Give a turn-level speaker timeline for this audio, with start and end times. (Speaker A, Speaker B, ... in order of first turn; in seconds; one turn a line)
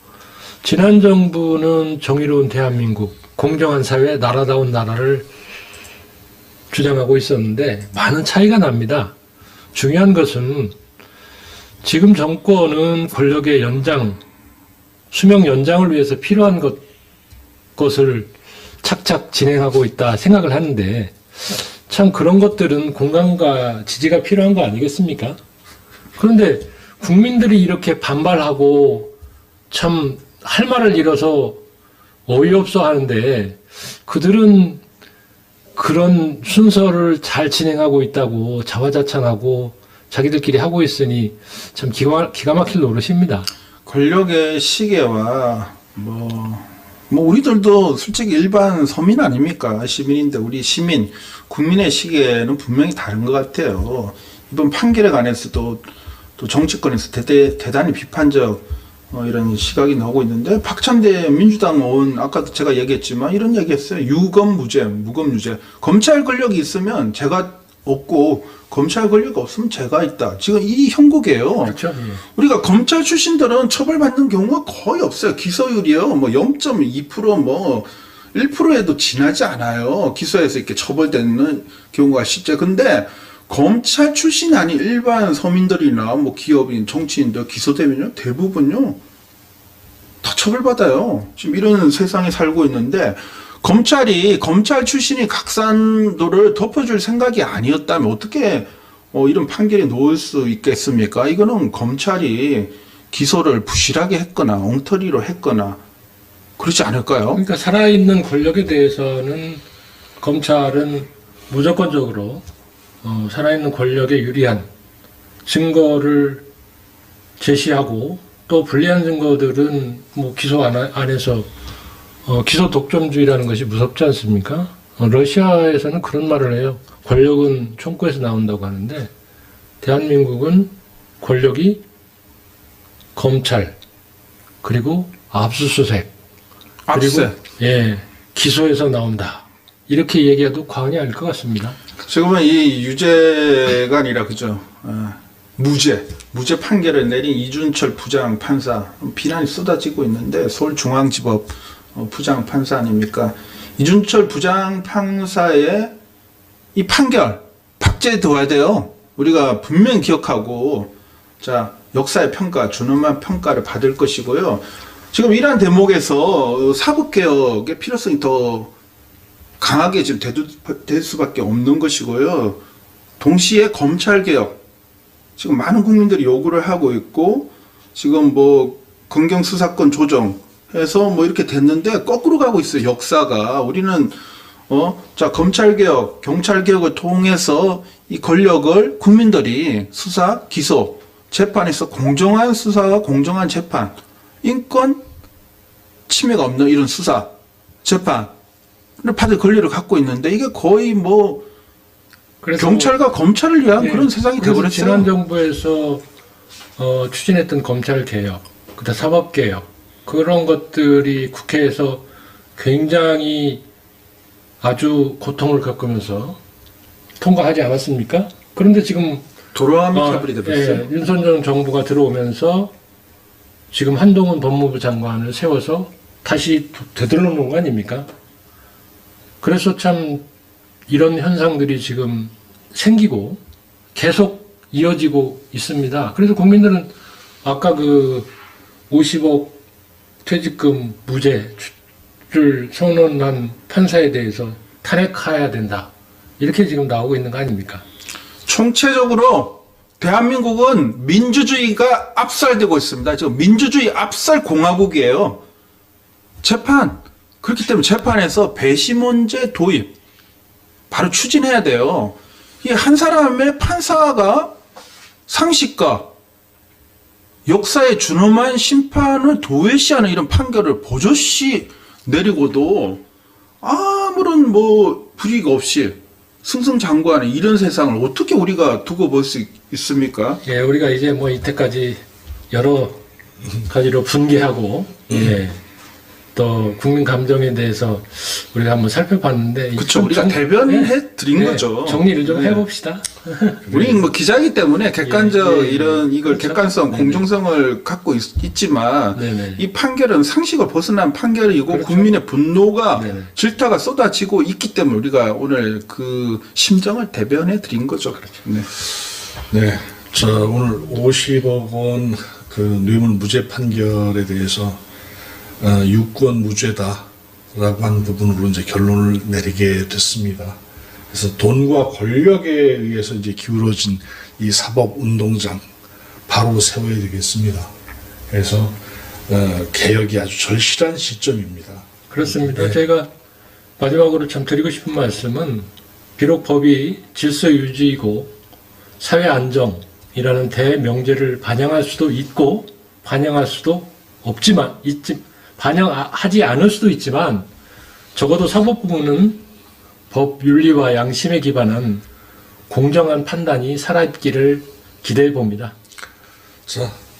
Speaker A: 0.6-5.3
Speaker A: 6.7-9.1
Speaker A: 9.7-10.7
Speaker A: 11.8-14.2
Speaker A: 15.1-16.8
Speaker A: 17.8-18.3
Speaker A: 18.8-25.4
Speaker A: 26.1-29.1
Speaker A: 29.7-31.6
Speaker A: 32.3-34.8
Speaker A: 35.8-43.5
Speaker B: 43.9-55.9
Speaker B: 56.4-71.8
Speaker A: 71.6-72.2
Speaker B: 72.3-89.0
Speaker B: 90.2-105.8
Speaker B: 106.6-107.4
Speaker A: 107.3-109.6
Speaker A: 110.2-112.4
Speaker A: 113.0-114.7
Speaker A: 115.4-116.4
Speaker A: 117.4-121.5
Speaker A: 122.2-129.1
Speaker A: 129.8-131.8
Speaker A: 133.1-133.8
Speaker A: 134.6-136.1
Speaker B: 136.9-137.3
Speaker A: 136.9-141.8
Speaker B: 142.0-155.9
Speaker B: 156.8-168.7
Speaker B: 169.6-172.6
Speaker B: 173.2-174.6
Speaker B: 175.4-184.2
Speaker B: 184.7-195.0
Speaker B: 196.1-197.3
Speaker B: 197.8-198.3
Speaker B: 199.0-201.5
Speaker A: 202.4-202.9
Speaker B: 202.6-205.1
Speaker A: 203.8-206.0
Speaker A: 206.8-213.6
Speaker A: 214.6-216.4
Speaker A: 217.2-219.2
Speaker B: 219.5-220.9
Speaker A: 219.9-222.7
Speaker A: 223.7-228.1
Speaker A: 229.4-230.2
Speaker A: 230.9-233.4
Speaker A: 233.9-236.9
Speaker A: 237.4-238.3
Speaker A: 238.9-239.6
Speaker A: 240.2-241.7
Speaker A: 242.3-247.8
Speaker B: 248.5-255.4
Speaker B: 256.4-259.9
Speaker B: 260.9-264.6
Speaker B: 265.3-266.1
Speaker B: 267.5-273.0
Speaker B: 273.6-280.4
Speaker A: 280.4-282.0
Speaker A: 282.5-283.0
Speaker A: 283.6-285.6
Speaker A: 286.3-294.0
Speaker B: 289.8-292.6
Speaker B: 293.7-308.7
Speaker A: 295.0-297.3
Speaker A: 299.1-299.6
Speaker A: 301.7-302.2
Speaker A: 302.9-303.3
Speaker C: 309.5-314.8
Speaker C: 315.6-320.6
Speaker C: 321.1-325.6
Speaker C: 326.3-327.7
Speaker C: 328.3-332.8
Speaker A: 332.1-333.1
Speaker A: 333.8-338.3
Speaker A: 339.0-347.5
Speaker A: 348.1-349.4
Speaker A: 350.1-352.0
Speaker A: 352.7-355.7
Speaker C: 356.7-356.9